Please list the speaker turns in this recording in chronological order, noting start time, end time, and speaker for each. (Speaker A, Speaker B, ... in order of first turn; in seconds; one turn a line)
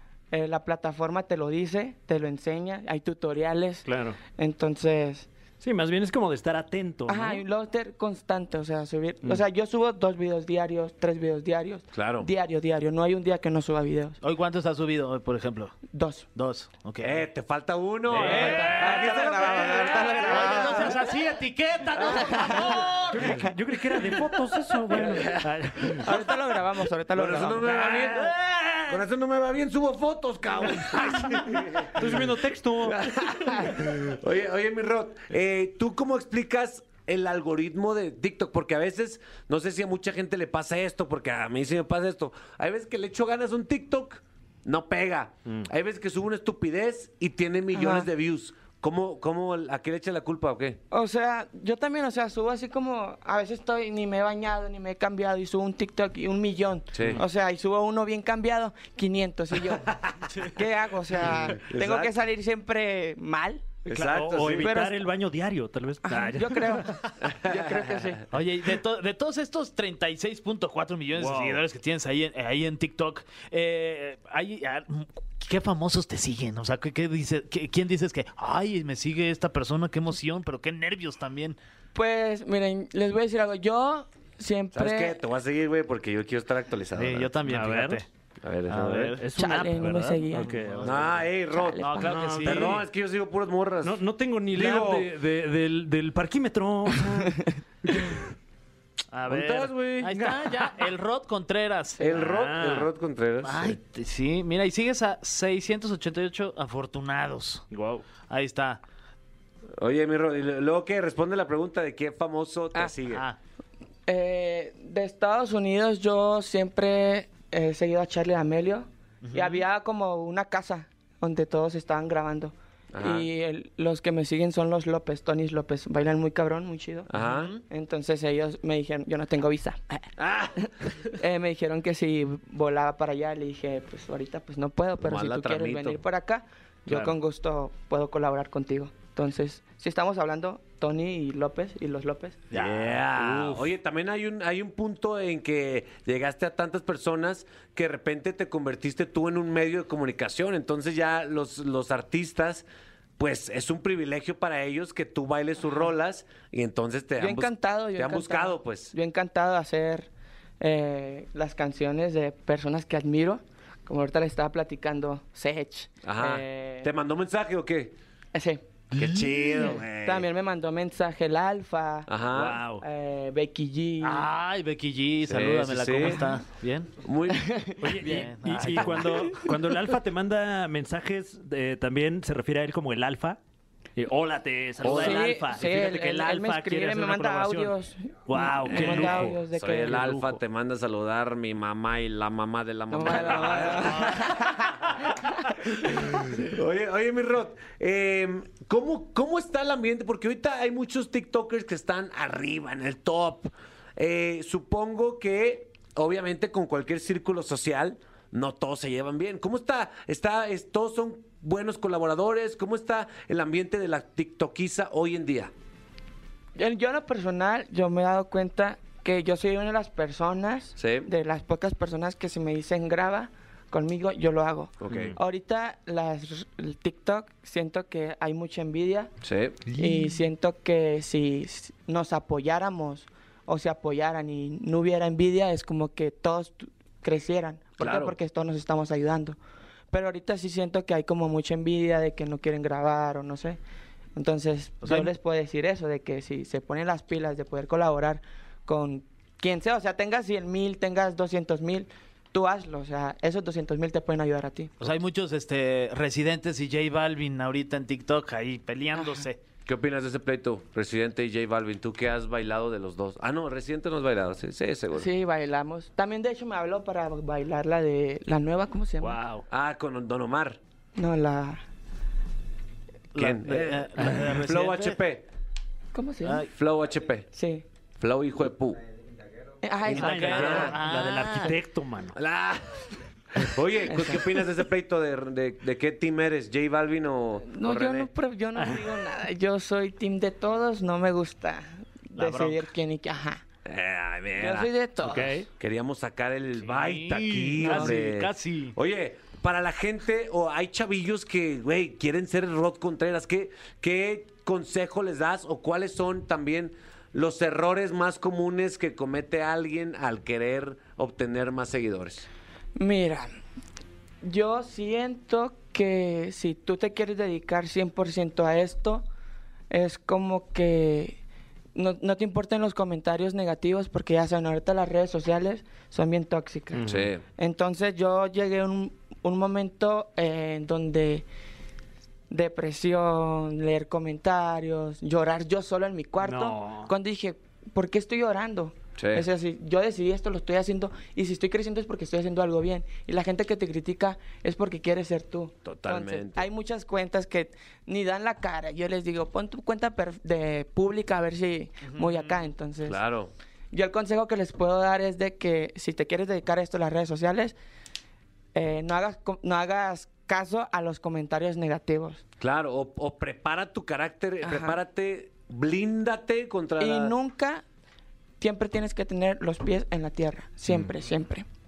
Speaker A: 0.3-5.3
Speaker B: 3.8-4.2
Speaker B: 5.6-7.4
Speaker A: 7.1-14.2
Speaker C: 11.9-12.3
Speaker D: 14.2-15.8
Speaker A: 15.9-16.3
Speaker D: 16.3-17.2
Speaker C: 17.0-20.8
Speaker B: 18.1-19.1
Speaker D: 18.1-18.7
Speaker A: 18.2-20.9
Speaker D: 20.1-23.4
Speaker C: 22.0-22.7
Speaker A: 22.1-22.9
Speaker B: 22.9-26.1
Speaker C: 24.9-26.2
Speaker A: 26.0-27.7
Speaker C: 27.1-32.2
Speaker B: 27.7-28.3
Speaker D: 28.2-28.9
Speaker B: 31.9-33.5
Speaker C: 32.8-50.8
Speaker A: 47.7-48.1
Speaker A: 50.9-63.7
Speaker C: 56.9-57.2
Speaker C: 61.4-62.1
Speaker C: 63.9-64.8
Speaker B: 63.9-67.1
Speaker A: 64.5-65.0
Speaker A: 66.0-68.2
Speaker C: 67.3-68.2
Speaker D: 68.3-81.6
Speaker B: 71.1-71.6
Speaker A: 81.9-85.2
Speaker C: 84.7-87.3
Speaker D: 86.9-88.1
Speaker B: 87.4-88.0
Speaker C: 88.4-89.2
Speaker D: 88.7-89.2
Speaker B: 88.8-91.3
Speaker A: 89.3-90.5
Speaker D: 90.6-91.0
Speaker C: 90.8-94.0
Speaker A: 91.5-92.2
Speaker D: 91.8-92.8
Speaker B: 92.0-92.8
Speaker B: 93.8-98.2
Speaker C: 94.5-95.1
Speaker D: 99.1-102.2
Speaker C: 99.3-100.3
Speaker B: 99.3-100.8
Speaker C: 102.0-103.8
Speaker B: 102.1-102.9
Speaker D: 103.4-107.6
Speaker B: 107.7-108.1
Speaker D: 108.2-108.8
Speaker C: 109.8-113.2
Speaker D: 113.1-113.4
Speaker A: 114.0-127.1
Speaker D: 119.2-119.6
Speaker C: 122.9-123.3
Speaker C: 127.1-127.5
Speaker D: 127.2-127.6
Speaker A: 127.7-142.4
Speaker C: 130.2-130.6
Speaker C: 135.0-136.0
Speaker B: 136.9-137.1
Speaker D: 142.5-143.6
Speaker C: 142.5-152.7
Speaker C: 153.2-158.9
Speaker A: 157.2-166.9
Speaker C: 166.0-167.9
Speaker A: 168.3-168.6
Speaker C: 168.9-170.3
Speaker B: 169.0-169.7
Speaker A: 169.8-172.1
Speaker C: 172.1-172.6
Speaker B: 172.3-172.8
Speaker A: 172.8-174.3
Speaker D: 174.0-176.9
Speaker C: 175.2-176.3
Speaker C: 177.0-177.6
Speaker A: 177.3-178.2
Speaker B: 177.8-183.4
Speaker D: 178.0-179.4
Speaker C: 178.8-179.1
Speaker B: 183.9-187.7
Speaker C: 184.8-185.3
Speaker A: 184.9-190.1
Speaker B: 188.3-190.4
Speaker C: 188.7-194.7
Speaker A: 192.9-195.5
Speaker C: 195.8-215.5
Speaker A: 216.6-229.1
Speaker C: 220.8-221.1
Speaker C: 224.8-225.2
Speaker B: 224.9-225.2
Speaker C: 229.2-229.6
Speaker A: 229.7-239.4
Speaker C: 237.8-238.1
Speaker A: 239.9-243.6
Speaker A: 244.2-254.7
Speaker D: 244.8-245.1
Speaker D: 254.8-259.4
Speaker A: 258.9-259.3
Speaker C: 259.6-265.1
Speaker A: 264.9-269.2
Speaker B: 269.0-269.4
Speaker C: 269.5-270.6
Speaker A: 270.9-271.6
Speaker D: 273.1-275.0
Speaker C: 273.1-275.2
Speaker A: 275.9-276.5
Speaker D: 276.2-276.5
Speaker C: 276.5-277.3
Speaker A: 277.3-277.6
Speaker C: 278.0-278.8
Speaker A: 279.6-280.7
Speaker B: 279.9-282.1
Speaker D: 279.9-281.6
Speaker C: 280.1-280.8
Speaker C: 282.1-288.1
Speaker A: 283.9-284.2
Speaker A: 287.4-293.4
Speaker B: 288.6-288.9
Speaker D: 292.2-292.6
Speaker C: 293.6-294.7
Speaker A: 294.4-295.3
Speaker B: 295.0-295.4
Speaker C: 295.5-312.3
Speaker D: 296.6-298.7
Speaker A: 297.6-297.9
Speaker A: 312.8-313.3
Speaker A: 314.2-319.1
Speaker A: 319.7-321.2
Speaker A: 321.7-326.8
Speaker B: 326.7-327.1
Speaker C: 326.9-327.2
Speaker A: 327.4-331.2
Speaker A: 332.3-353.0
Speaker B: 336.2-336.9
Speaker C: 339.0-339.2
Speaker C: 345.6-346.5
Speaker D: 351.9-352.4
Speaker C: 352.8-353.3
Speaker A: 353.7-357.5
Speaker A: 358.5-362.2
Speaker C: 362.4-367.1
Speaker A: 364.4-364.8
Speaker A: 366.8-367.6
Speaker A: 368.4-371.4